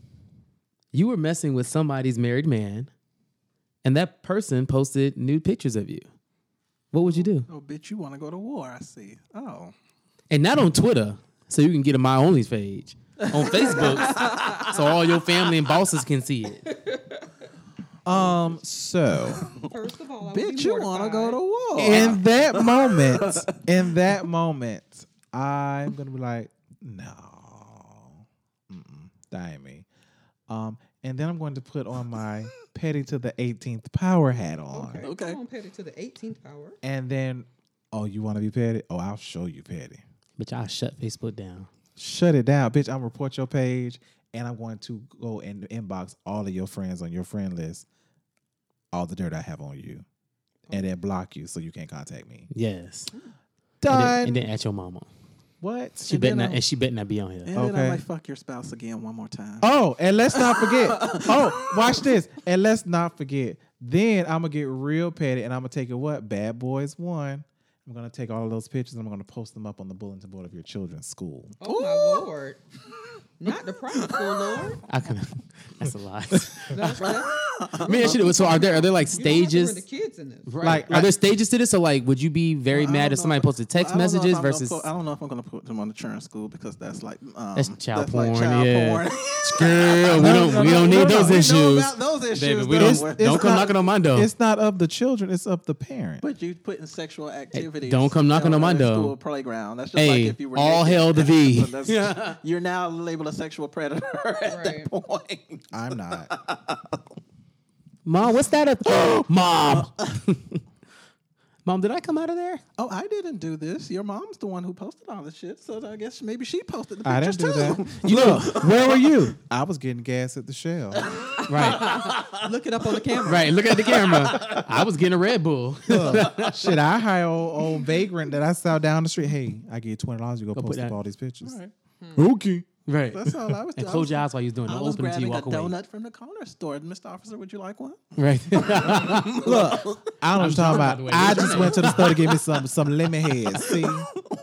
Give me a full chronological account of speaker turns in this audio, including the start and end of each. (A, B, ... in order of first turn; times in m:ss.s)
0:00.9-0:02.9 A
0:03.8-0:06.1 A
0:06.9-0:07.5 A
0:07.2-0:09.7 B
0:10.3-0:16.7 A
0:13.4-0:14.8 B
0:14.2-0:14.7 C
0:16.7-0:17.3 C
0:18.0-0:19.4 D
0:18.1-0:18.6 C
0:19.6-0:21.4 C
0:20.3-0:23.5 B
0:21.8-0:29.9 D
0:30.5-0:35.1 D
0:34.7-0:36.8 C
0:35.0-0:35.4 B
0:36.8-0:40.0 D
0:40.4-0:41.7 A
0:42.0-0:47.9 D
0:48.9-0:50.0 D
0:50.6-0:50.9 C
0:50.7-0:52.5 D
0:52.5-0:53.1 A
0:53.8-0:54.4 D
0:53.8-0:55.1 A
0:55.6-0:56.3 D
0:56.1-0:57.5 A
0:56.1-0:56.6 B
0:57.5-0:59.7 B
0:57.5-0:58.0 D
0:59.6-1:11.6 D
1:00.3-1:02.1 B
1:11.6-1:12.6 C
1:11.6-1:12.3 B
1:13.4-1:14.8 C
1:14.9-1:17.2 A
1:16.7-1:20.8 C
1:17.0-1:18.3 B
1:17.8-1:19.8 A
1:20.5-1:24.9 A
1:20.6-1:21.1 D
1:22.7-1:33.5 B
1:27.6-1:34.3 A
1:30.2-1:31.4 D
1:32.8-1:36.2 D
1:36.2-1:47.0 B
1:37.5-1:39.2 A
1:40.0-1:42.4 A
1:44.5-1:44.9 C
1:45.7-1:46.3 D
1:48.0-1:50.6 A
1:51.6-1:52.6 A
1:52.8-1:59.2 B
1:57.0-2:01.2 D
1:58.0-1:58.7 A
2:01.0-2:02.5 B
2:01.5-2:02.1 A
2:01.8-2:03.7 C
2:03.2-2:04.7 B
2:03.3-2:06.7 A
2:05.9-2:11.6 D
2:06.1-2:06.7 B
2:10.5-2:11.0 A
2:11.4-2:11.7 B
2:12.0-2:12.3 C
2:12.2-2:12.7 D
2:12.9-2:15.8 A
2:13.1-2:20.1 B
2:18.2-2:19.6 A
2:19.4-2:24.1 D
2:20.4-2:22.2 A
2:20.7-2:24.0 B